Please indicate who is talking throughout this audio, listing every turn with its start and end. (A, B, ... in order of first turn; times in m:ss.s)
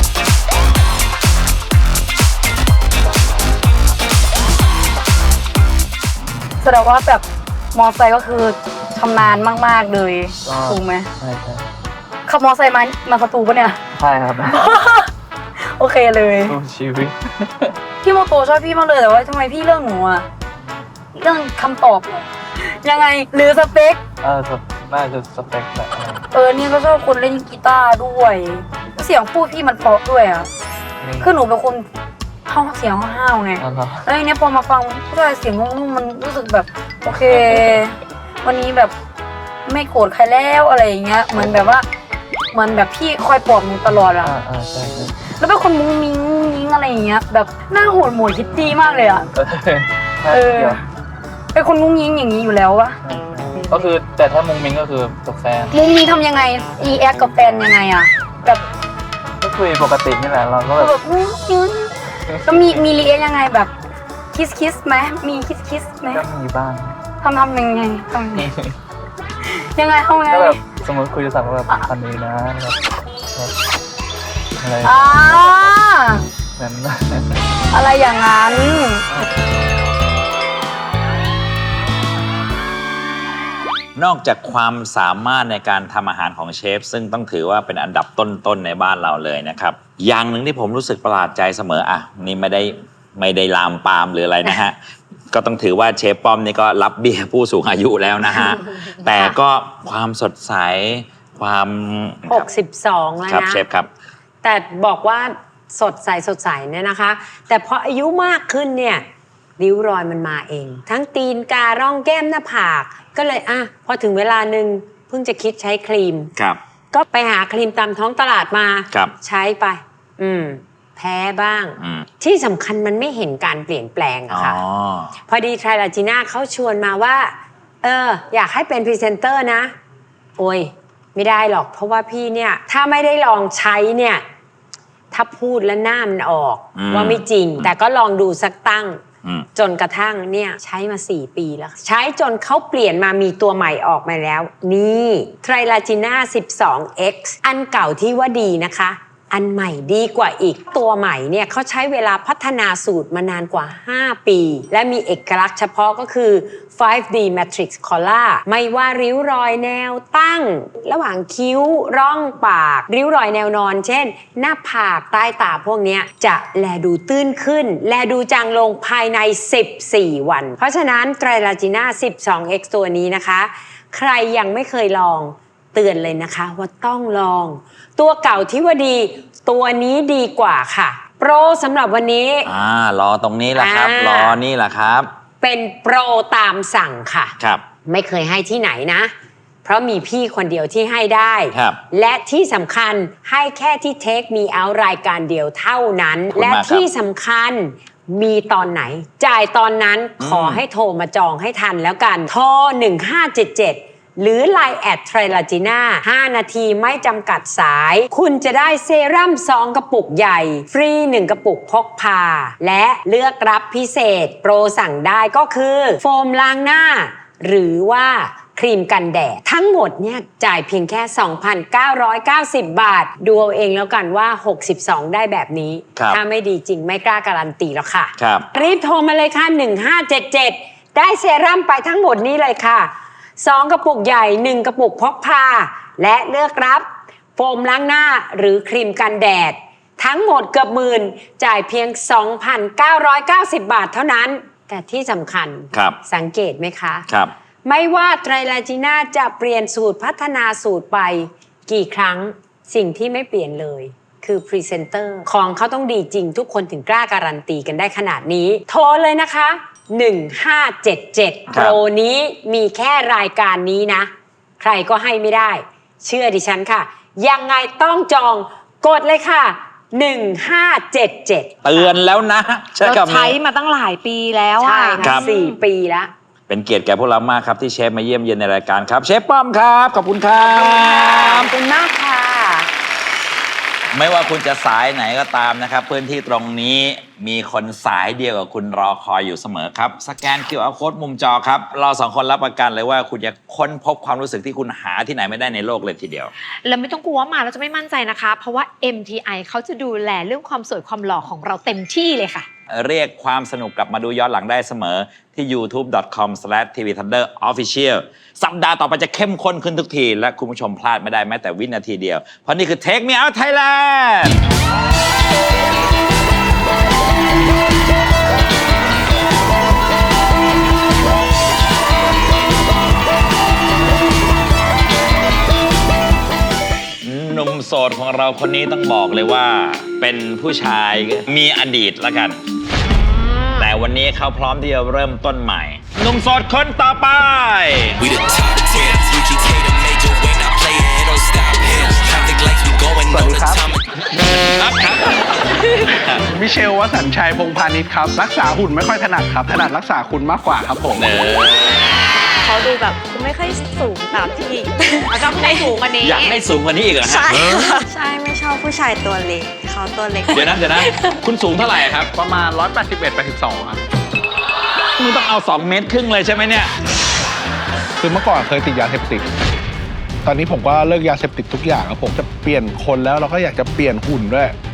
0:06.6-0:11.1 A
0:10.4-0:11.6 B
0:12.2-0:13.8 A
0:14.0-0:14.6 B
0:14.5-0:15.1 A
0:15.7-0:16.6 A
0:16.5-0:17.7 B
0:18.0-0:20.2 A
0:21.1-0:24.0 A
0:24.2-0:26.2 B
0:26.3-0:30.5 A
0:31.0-0:31.3 B
0:31.2-0:31.8 A
0:32.5-0:38.9 A
0:33.6-0:34.0 B
0:39.6-0:41.8 A
0:42.5-0:44.3 A
0:44.0-0:45.1 B
0:45.3-0:49.3 A
0:49.3-0:50.8 B
0:50.3-0:50.8 A
0:51.5-0:53.0 A
0:53.0-0:55.7 B
0:53.6-0:53.9 A
0:55.7-0:58.6 A
0:59.4-1:00.9 B
1:00.8-1:01.9 A
1:02.3-1:02.7 B
1:02.4-1:03.7 A
1:04.3-1:06.2 A
1:06.1-1:07.0 B
1:07.2-1:08.5 A
1:08.4-1:08.7 B
1:09.4-1:10.7 A
1:10.3-1:12.8 B
1:14.6-1:15.0 B
1:14.8-1:16.2 A
1:16.6-1:17.4 B
1:17.7-1:19.0 A
1:24.0-1:34.8 C
1:35.3-1:42.5 C
1:42.3-1:43.6 D
1:43.3-1:43.9 C
1:44.4-1:49.0 D
1:49.6-1:56.3 D
1:56.9-2:04.6 D
2:01.8-2:02.0 C
2:04.3-2:05.1 C
2:05.3-2:09.7 D
2:10.4-2:14.2 D
2:15.1-2:19.0 D
2:16.8-2:17.7 C
2:19.6-3:02.5 D
3:02.4-3:05.1 C
3:03.5-3:04.4 D
3:05.4-3:07.3 D
3:07.4-3:07.6 C
3:07.8-3:09.1 D
3:09.6-4:07.1 D
3:11.5-3:11.8 C
3:16.3-3:16.9 C
3:20.2-3:20.6 C
3:48.2-3:48.4 C
4:05.7-4:06.0 C
4:07.1-4:07.3 C
4:07.6-4:31.9 D
4:21.5-4:21.8 C
4:31.6-4:33.4 C
4:32.8-4:35.5 E
4:34.6-4:36.1 D
4:35.0-4:35.3 C
4:36.5-4:41.5 C
4:40.4-4:42.7 D
4:43.9-4:56.3 C
4:56.6-5:02.5 E
5:02.7-5:14.4 C
5:27.0-5:32.4 C
5:32.9-5:33.7 E
5:33.5-5:38.0 C
5:38.0-5:43.7 F
5:43.1-5:43.7 G
5:44.6-5:45.0 C
5:45.8-5:46.2 C
5:46.3-5:51.1 G
5:50.9-5:51.8 C
5:52.4-5:56.4 H
5:55.1-5:55.9 E
5:56.0-5:57.6 C
5:57.0-6:01.1 H
6:00.3-6:02.1 C
6:02.1-6:03.8 G
6:05.0-6:06.7 C
6:08.0-6:09.3 G
6:10.2-6:14.5 G